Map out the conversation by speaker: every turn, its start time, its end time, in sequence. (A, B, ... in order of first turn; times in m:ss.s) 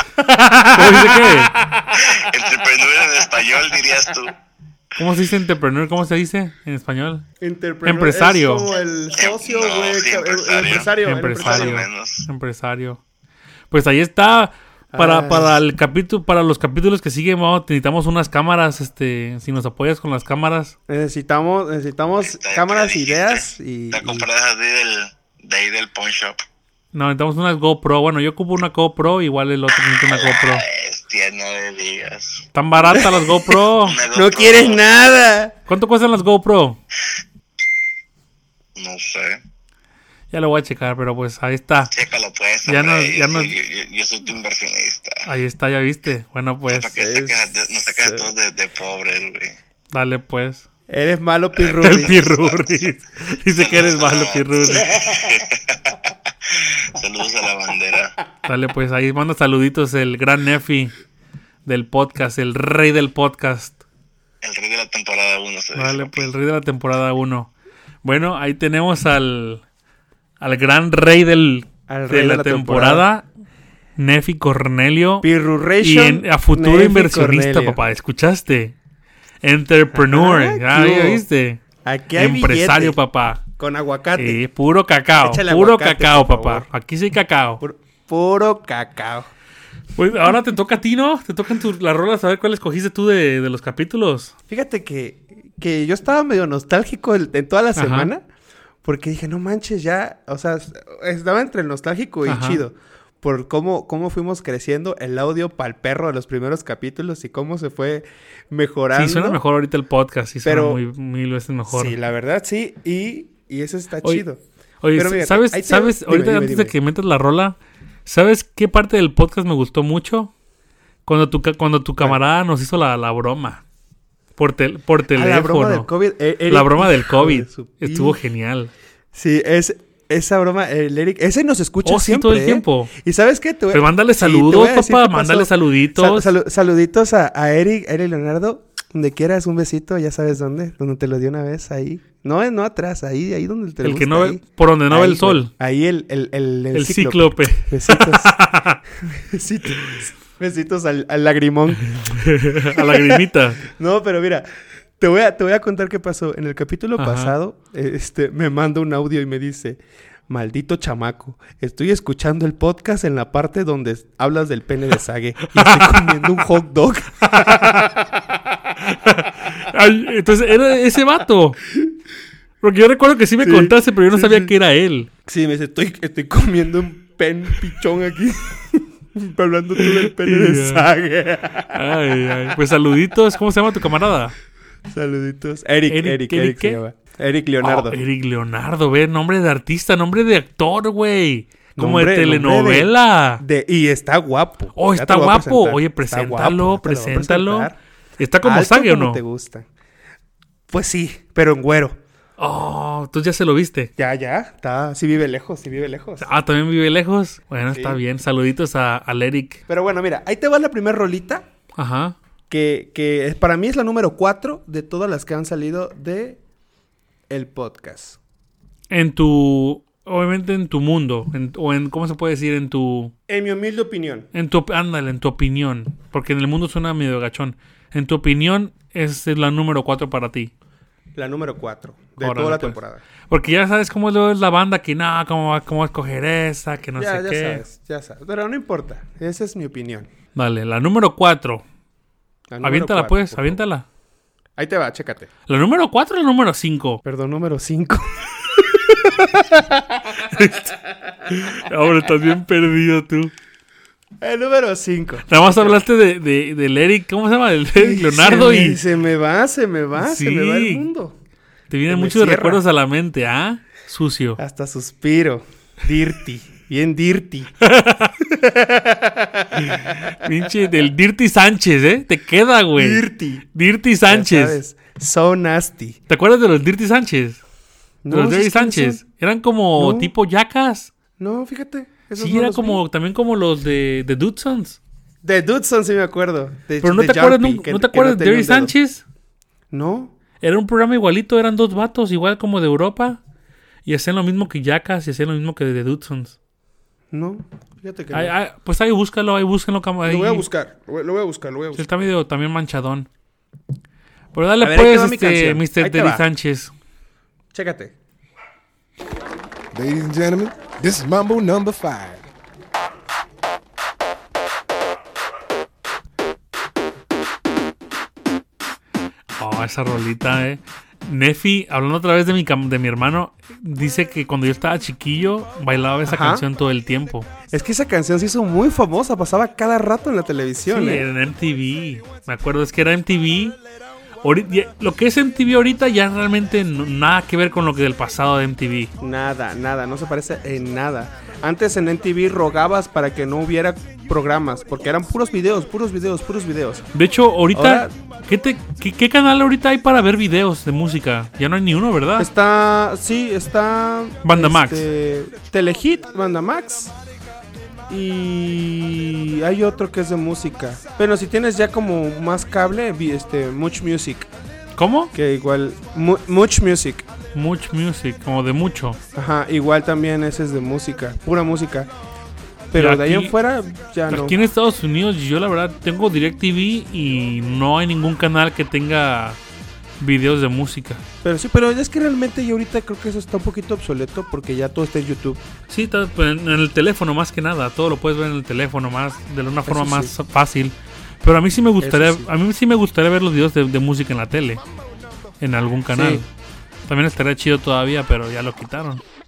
0:00.2-0:01.5 A
0:01.9-0:04.4 B
0:05.0-0:07.2 A
0:07.4-0:11.8 C
0:07.8-0:08.7 A
0:09.2-0:12.2 B
0:11.0-0:13.0 A
0:13.7-0:20.8 A
0:14.9-0:15.6 C
0:20.9-0:24.3 C
0:22.2-0:26.4 B
0:26.9-0:30.6 A
0:29.8-0:33.0 B
0:32.5-0:34.0 A
0:32.9-0:33.2 C
0:33.7-0:35.2 B
0:34.1-0:35.6 C
0:35.7-0:36.8 A
0:38.8-0:39.4 B
0:40.3-0:41.9 A
0:41.9-0:45.2 B
0:42.6-0:43.5 A
0:45.3-0:46.9 A
0:46.7-0:49.6 B
0:47.0-0:48.3 C
0:49.9-0:50.6 A
0:50.9-0:52.3 C
0:51.6-0:54.9 A
0:52.1-0:52.4 B
0:53.5-0:58.2 B
0:58.5-1:00.9 A
1:01.6-1:03.8 A
1:04.4-1:06.3 B
1:05.8-1:07.5 A
1:08.0-1:09.6 A
1:10.4-1:13.3 A
1:11.9-1:13.0 C
1:14.0-1:15.3 A
1:15.2-1:17.8 C
1:15.8-1:18.8 A
1:19.4-1:21.6 A
1:19.9-1:21.2 C
1:21.8-1:24.4 C
1:22.2-1:23.4 A
1:24.2-1:27.6 A
1:25.2-1:26.6 C
1:27.6-1:29.3 C
1:30.0-1:34.3 A
1:34.5-1:38.2 C
1:37.8-1:38.1 A
1:38.8-1:49.4 C
1:42.3-1:42.6 A
1:48.9-1:52.0 A
1:50.4-1:50.8 C
1:51.7-1:54.4 C
1:54.8-2:00.3 A
1:54.9-1:56.8 C
2:01.0-2:03.6 A
2:04.4-2:05.9 A
2:05.1-2:08.2 C
2:06.5-2:08.7 A
2:09.1-2:28.4 C
2:11.8-2:12.9 A
2:13.7-2:16.3 A
2:23.8-2:25.5 A
2:26.7-2:28.8 A
2:29.0-2:34.5 C
2:31.9-2:33.6 A
2:35.0-2:48.2 C
2:37.0-2:37.3 A
2:45.5-2:46.2 A
2:47.3-2:47.8 A
2:48.8-2:51.6 A
2:52.6-2:55.1 A
2:53.4-2:54.5 C
2:55.3-3:01.8 C
2:59.8-3:00.9 A
3:01.7-3:04.4 A
3:04.9-3:08.0 C
3:05.9-3:06.8 A
3:07.6-3:13.4 A
3:11.8-3:17.8 C
3:14.8-3:19.2 A
3:18.4-3:19.7 C
3:20.7-3:22.0 C
3:22.4-3:23.9 A
3:24.0-3:26.3 C
3:26.2-3:29.6 A
3:27.7-3:28.0 C
3:29.7-3:31.5 C
3:31.8-3:32.2 A
3:32.5-3:36.4 C
3:37.3-3:38.2 C
3:38.9-3:43.1 A
3:43.3-3:44.3 C
3:44.3-3:50.5 A
3:51.1-3:53.0 C
3:52.2-3:57.6 A
3:57.0-4:00.1 C
4:00.4-4:01.6 A
4:02.5-4:03.6 C
4:02.6-4:03.9 A
4:04.6-4:05.3 C
4:05.5-4:07.0 A
4:07.0-4:10.7 C
4:10.3-4:10.7 A
4:11.3-4:13.3 A
4:14.2-4:15.8 C
4:15.3-4:18.8 A
4:17.8-4:21.2 C
4:20.0-4:20.9 A
4:21.7-4:24.4 A
4:21.9-4:22.6 C
4:24.4-4:27.6 C
4:27.6-4:28.1 A
4:28.2-4:30.1 C
4:29.6-4:34.6 A
4:32.8-4:33.4 C
4:34.1-4:36.0 C
4:36.1-4:37.4 A
4:38.0-4:39.0 C
4:38.1-4:40.9 A
4:39.8-4:40.1 C
4:41.2-4:42.8 C
4:42.2-4:44.8 A
4:45.2-4:48.7 C
4:46.8-4:49.0 A
4:49.7-4:50.1 C
4:50.4-4:53.2 A
4:53.9-4:56.4 A
4:57.1-4:58.3 C
4:58.1-5:00.5 A
5:00.0-5:01.9 C
5:01.8-5:03.1 A
5:04.3-5:06.7 A
5:04.6-5:06.2 C
5:07.5-5:08.0 C
5:09.7-5:12.3 D
5:19.3-5:27.3 A
5:26.0-5:26.5 C
5:27.5-5:31.1 C
5:30.7-5:33.6 A
5:34.2-5:38.9 A
5:39.0-5:46.9 C
5:46.9-5:52.3 A
5:47.5-5:47.9 C
5:52.2-5:56.9 C
5:54.2-5:54.8 A
5:57.9-6:04.3 C
6:04.8-6:05.1 A
6:05.1-6:07.1 C
6:07.3-6:09.0 A
6:09.1-6:11.9 C
6:12.7-6:14.4 C
6:12.8-6:13.4 A
6:14.1-6:19.4 A
6:20.0-6:21.0 A
6:21.2-6:25.4 C
6:25.7-6:34.6 A
6:29.6-6:30.1 C
6:31.8-6:32.3 C
6:35.4-6:36.3 A
6:35.9-6:36.2 C
6:36.9-6:39.0 A